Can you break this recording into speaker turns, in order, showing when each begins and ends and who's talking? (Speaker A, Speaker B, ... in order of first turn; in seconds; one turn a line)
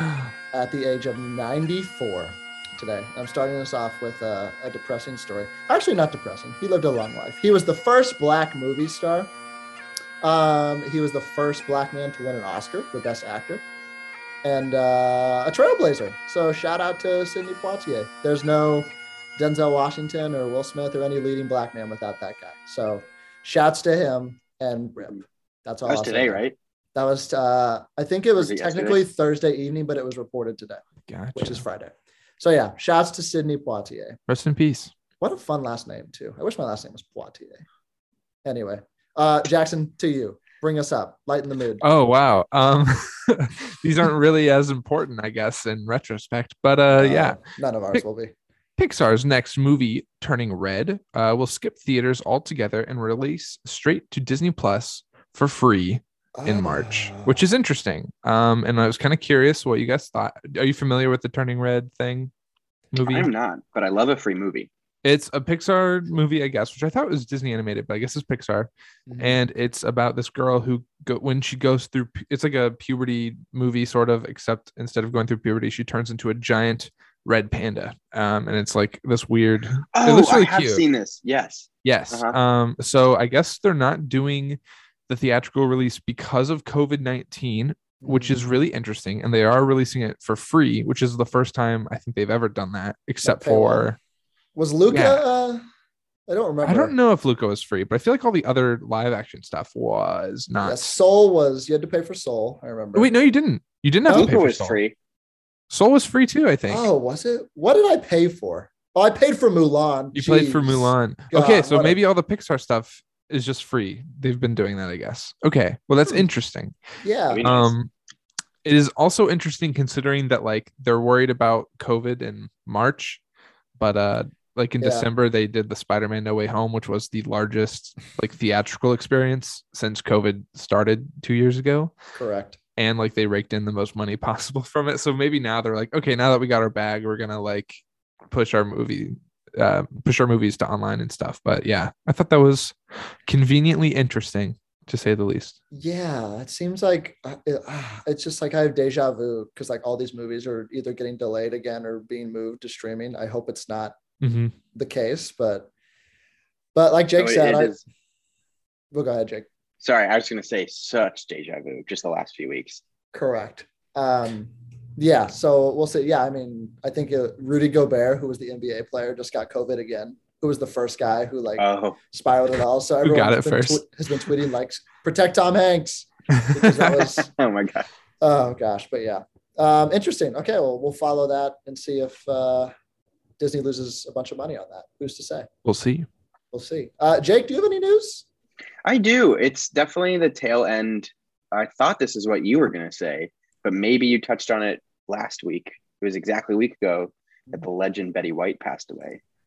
Speaker A: 0.5-9.3
Speaker A: 10.2-13.6
Speaker A: 14.4-26.4
Speaker B: 25.9-26.6
Speaker A: 26.9-30.8
Speaker B: 28.4-29.0
Speaker C: 31.1-31.6
Speaker A: 31.3-34.2
Speaker C: 34.3-34.9
Speaker A: 35.2-37.6
Speaker A: 38.4-41.8
Speaker C: 41.8-47.4
Speaker A: 46.9-48.3
Speaker C: 48.8-62.3
Speaker A: 56.4-57.4
Speaker C: 62.9-63.3
Speaker B: 63.0-64.7
Speaker C: 65.0-80.8
Speaker A: 69.1-69.4
Speaker B: 79.9-82.3
Speaker C: 81.8-94.0
Speaker A: 88.0-88.4
Speaker A: 93.2-93.9
Speaker A: 94.5-95.6
Speaker C: 94.9-95.2
Speaker A: 96.3-96.9
Speaker C: 96.6-100.9
Speaker A: 100.6-103.1
Speaker C: 102.9-104.8
Speaker B: 104.1-104.9
Speaker C: 105.7-106.9
Speaker A: 106.7-112.0
Speaker C: 110.1-116.8
Speaker A: 117.0-117.5
Speaker B: 117.3-117.7
Speaker C: 117.4-117.9
Speaker C: 118.6-123.2
Speaker C: 123.8-131.9
Speaker A: 124.8-125.0
Speaker A: 132.1-132.6
Speaker C: 132.8-142.8
Speaker C: 143.3-145.6
Speaker A: 145.7-154.0
Speaker C: 154.2-154.5
Speaker A: 154.7-155.7
Speaker A: 156.7-157.8
Speaker B: 157.2-157.8
Speaker A: 158.9-159.5
Speaker B: 159.8-162.8
Speaker A: 163.1-177.3
Speaker B: 171.6-172.0
Speaker C: 173.0-173.8
Speaker C: 176.6-176.9
Speaker B: 177.0-177.8
Speaker A: 178.2-182.7
Speaker A: 183.4-185.5
Speaker C: 185.6-186.1
Speaker A: 186.5-188.2
Speaker B: 188.8-199.2